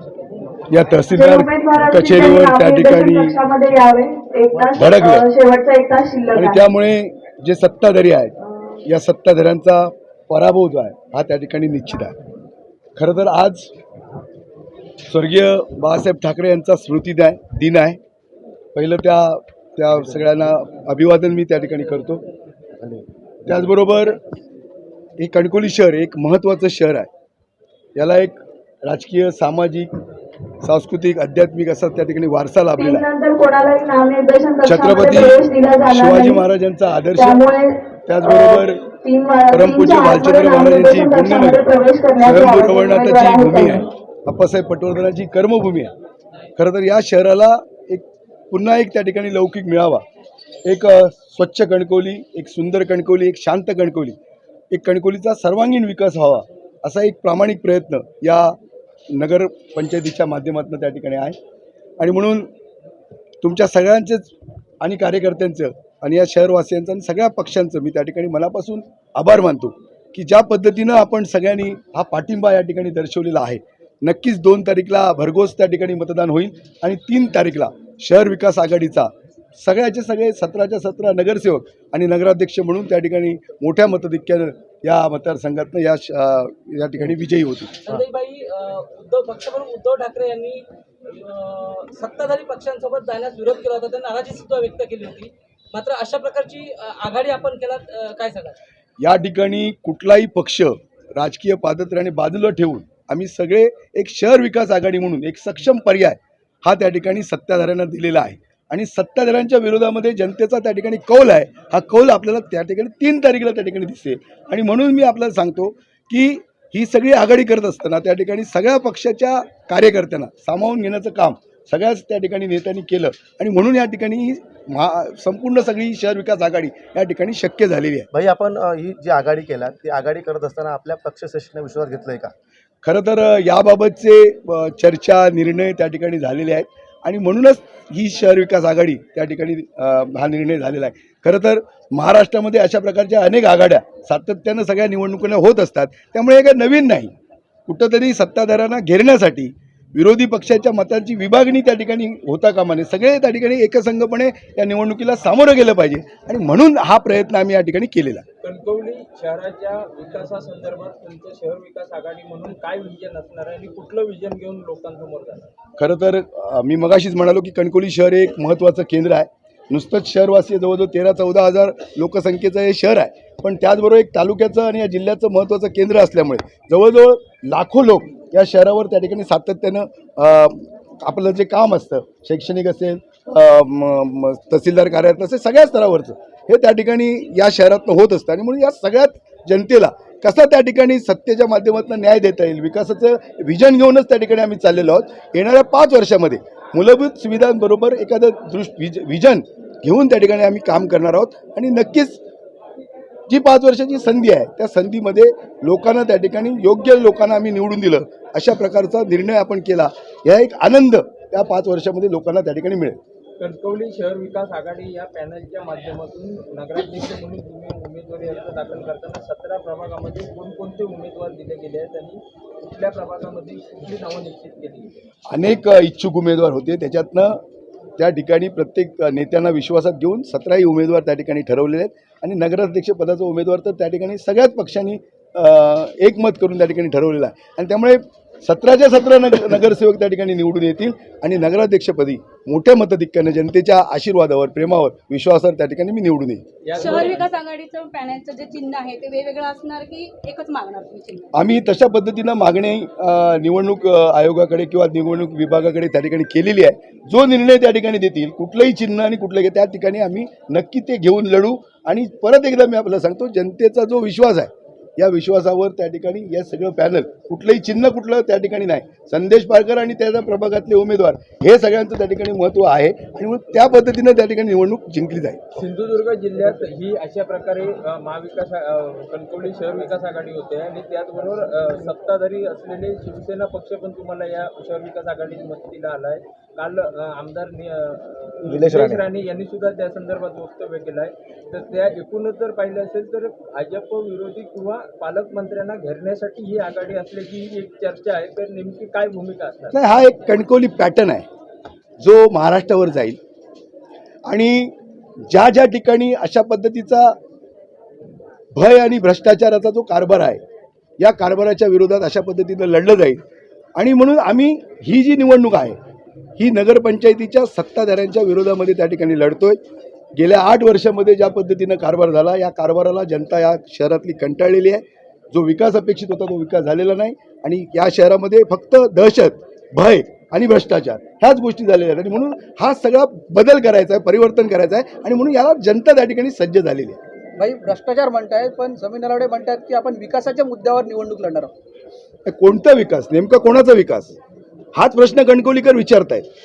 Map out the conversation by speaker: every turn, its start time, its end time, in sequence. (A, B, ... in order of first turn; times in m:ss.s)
0:00.7-0:03.4 A
0:01.1-0:06.6 B
0:04.6-0:05.3 A
0:06.3-0:12.2 A
0:08.5-0:08.8 B
0:13.0-0:13.7 A
0:15.1-0:18.0 A
0:18.8-0:22.2 A
0:22.8-0:23.0 C
0:23.5-0:24.2 A
0:25.2-0:27.1 A
0:28.0-0:29.9 A
0:30.6-0:33.1 A
0:32.8-0:36.4 B
0:34.6-0:37.4 A
0:37.2-0:43.8 B
0:38.1-0:38.8 A
0:39.5-0:41.7 A
0:42.2-0:45.9 A
0:46.6-0:50.0 A
0:50.6-0:54.2 A
0:54.7-0:58.6 A
0:59.1-1:01.4 A
1:02.0-1:02.5 A
1:03.4-1:28.0 A
1:27.9-1:30.1 D
1:27.9-1:30.6 E
1:31.3-1:38.5 E
1:32.0-1:35.3 D
1:35.8-1:36.4 D
1:37.1-1:38.5 D
1:39.0-2:08.1 A
2:08.1-2:12.3 C
2:12.8-2:27.1 A
2:27.7-2:38.2 A
2:38.4-2:45.4 D
2:45.8-3:22.2 A
3:23.3-3:33.0 A
3:33.4-3:44.9 D
3:45.3-3:47.4 A
3:48.0-4:06.4 A
4:06.6-4:07.3 D
4:06.8-4:11.3 E
4:11.3-4:35.4 A
4:35.6-4:59.8 D
4:48.5-4:49.1 C
4:59.7-5:01.3 A
5:02.0-5:03.2 A
5:04.3-5:04.8 A
5:05.3-5:07.2 A
5:08.5-5:10.4 A
5:11.0-5:13.2 A
5:13.8-5:15.8 A
5:16.4-5:19.6 A
5:20.2-5:37.0 A
5:37.4-5:41.5 F
5:42.2-5:44.2 A
5:44.8-5:46.3 A